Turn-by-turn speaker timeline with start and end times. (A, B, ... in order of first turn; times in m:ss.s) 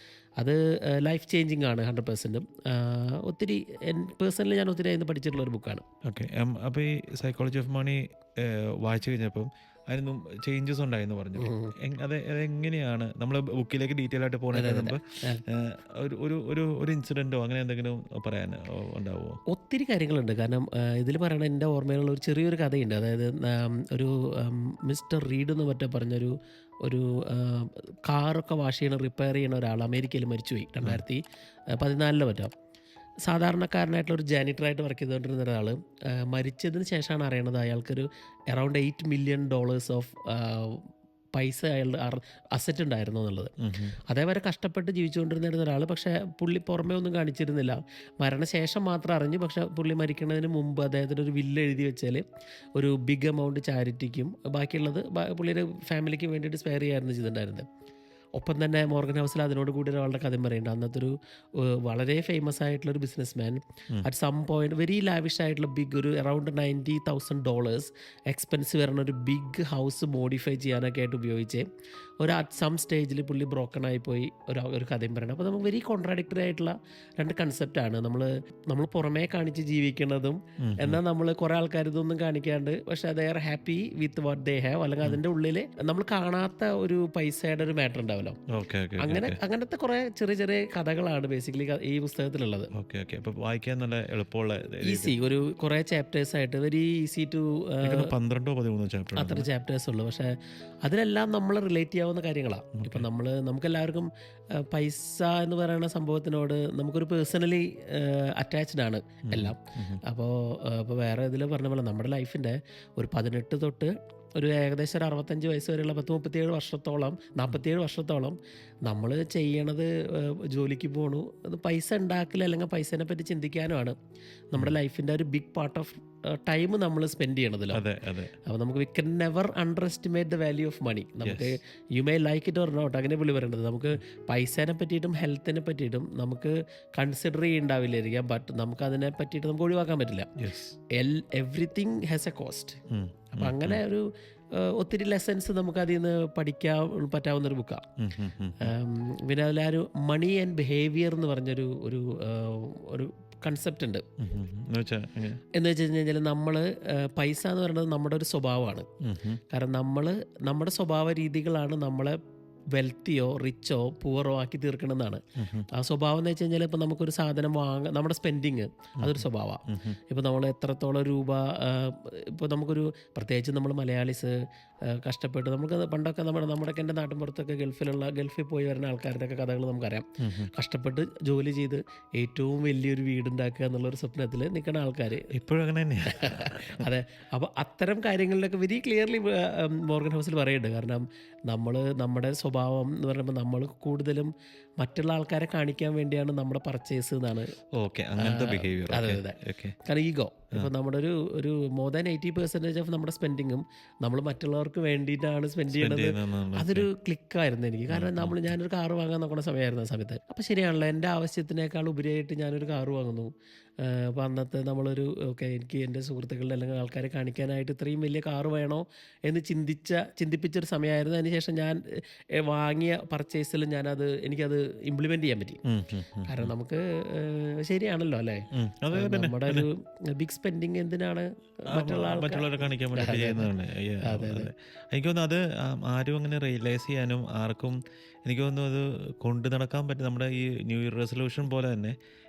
0:00.4-0:05.9 A
0:06.0-0:19.4 B
0:11.4-0:11.7 A
0:14.5-0:15.4 A
0:19.5-0:32.5 A
0:33.3-0:43.5 A
0:43.6-0:44.0 B
0:44.1-0:57.7 A
0:58.4-1:11.7 A
1:12.2-1:28.4 A
1:20.6-1:21.0 B
1:28.5-1:29.4 B
1:29.0-1:32.7 A
1:32.7-1:35.2 B
1:34.8-1:38.1 A
1:37.8-1:39.5 B
1:39.2-2:04.0 A
1:42.8-1:43.1 B
1:49.3-1:50.0 B
2:04.5-2:07.8 A
2:07.7-2:08.4 B
2:08.4-2:20.3 A
2:11.2-2:11.6 B
2:20.4-2:20.8 B
2:20.9-2:22.8 A
2:22.9-2:23.8 B
2:23.3-2:27.8 A
2:28.0-2:28.7 B
2:28.6-2:34.0 A
2:34.2-2:35.4 B
2:35.5-2:38.9 A
2:39.0-2:39.4 B
2:39.5-2:42.2 A
2:42.7-3:05.3 A
2:45.4-2:45.7 B
2:49.0-2:50.0 B
3:00.2-3:00.5 B
3:05.3-3:06.9 B
3:06.1-3:17.6 A
3:17.7-3:19.8 B
3:18.2-3:45.6 A
3:25.7-3:26.9 B
3:27.9-3:28.5 B
3:45.6-3:46.5 B
3:46.3-3:53.5 A
3:48.5-3:49.7 B
3:51.7-4:02.0 B
3:54.0-3:54.5 A